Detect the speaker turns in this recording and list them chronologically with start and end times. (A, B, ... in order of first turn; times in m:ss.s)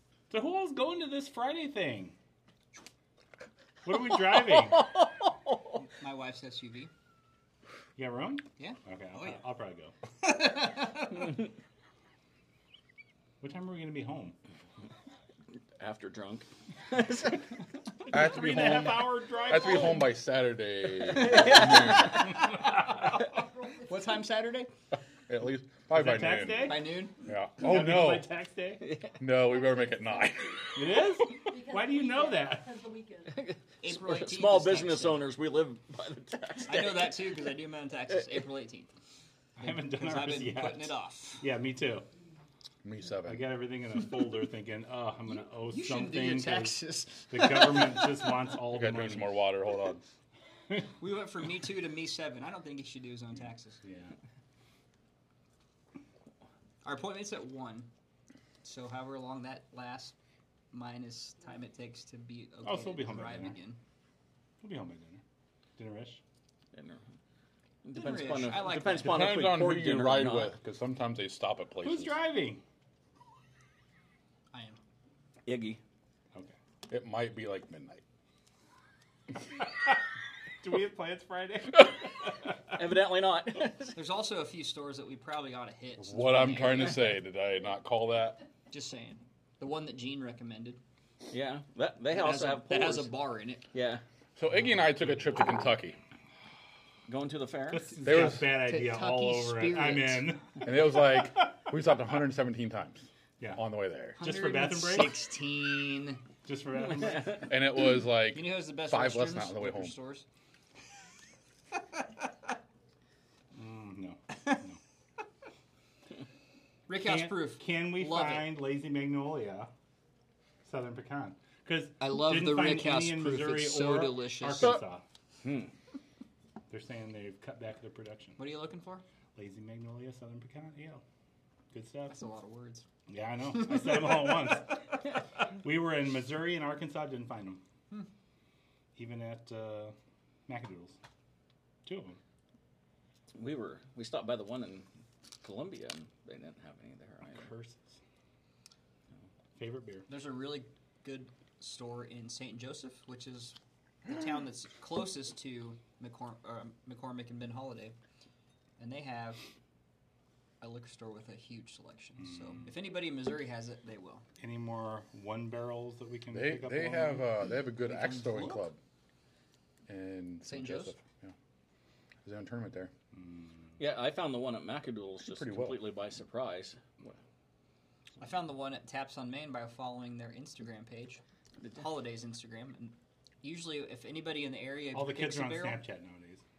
0:00.3-0:02.2 A
0:03.8-0:04.9 A
0:04.4-0:05.7 B
0:05.8-0:06.9 C
0:08.0-0:09.9 A
0:08.6-0:09.4 C
0:10.2-0:11.4 C
0:13.4-0:14.4 A
0:15.8-0:17.5 B
0:18.1-0:20.2 A
0:18.1-0:22.4 D
0:21.0-0:22.4 B
0:21.1-0:24.7 C
0:23.3-0:23.8 E
0:25.3-0:28.3 D
0:25.9-0:27.0 A
0:26.6-0:27.2 C
0:27.6-0:28.9 A
0:28.8-0:29.1 B
0:29.2-0:31.0 D
0:30.8-0:32.7 A
0:31.5-0:33.5 E
0:33.3-0:37.3 B
0:33.8-0:35.2 C
0:36.7-0:38.9 C
0:39.6-0:42.1 A
0:39.6-0:41.5 C
0:42.8-0:43.6 D
0:43.3-0:49.3 A
0:45.3-0:48.4 C
0:48.7-0:50.0 D
0:51.0-0:53.8 C
0:53.8-0:54.2 A
0:56.8-0:57.9 C
0:58.6-1:00.2 C
1:00.7-1:03.8 C
1:02.6-1:03.6 A
1:04.6-1:05.2 A
1:05.8-1:06.2 A
1:06.7-1:07.0 B
1:07.8-1:10.6 B
1:07.9-1:09.4 C
1:09.0-1:12.2 D
1:11.8-1:12.6 A
1:14.5-1:14.8 C
1:15.5-1:15.8 B
1:16.9-1:18.0 D
1:20.6-1:22.3 A
1:22.7-1:24.0 B
1:24.0-1:27.2 C
1:26.0-1:28.4 D
1:28.7-1:30.8 C
1:31.3-1:33.2 B
1:32.1-1:33.7 C
1:33.7-1:34.0 B
1:34.4-1:36.0 D
1:37.1-1:37.9 B
1:37.7-1:41.5 A
1:38.0-1:38.5 D
1:38.1-1:40.3 C
1:40.6-1:44.2 D
1:44.2-1:45.3 A
1:44.2-1:46.2 C
1:46.4-1:47.5 A
1:47.3-1:50.0 D
1:48.3-1:50.3 C
1:53.5-1:54.8 A
1:56.9-1:58.5 C
1:56.9-1:59.7 A
2:00.6-2:05.0 A
2:02.0-2:04.8 C
2:06.7-2:08.4 A
2:08.4-2:09.0 C
2:09.4-2:11.0 A
2:11.7-2:12.2 A
2:12.1-2:12.8 C
2:13.1-2:17.6 A
2:13.6-2:14.3 C
2:19.0-2:20.0 A
2:20.5-2:21.0 A
2:21.8-2:22.2 A
2:23.3-2:24.9 B
2:25.4-2:27.5 B
2:27.3-2:28.0 A
2:29.6-2:30.1 A
2:30.1-2:38.0 C
2:38.8-2:39.4 C
2:40.6-2:44.2 C
2:42.3-2:42.7 A
2:44.4-2:47.3 A
2:46.3-2:48.8 D
2:47.8-2:48.7 C
2:49.9-2:51.3 D
2:50.4-2:51.0 C
2:52.2-2:52.9 D
2:53.1-2:53.7 A
2:53.8-2:57.2 B
2:55.3-2:55.8 D
2:58.2-3:05.8 C
3:04.9-3:06.4 A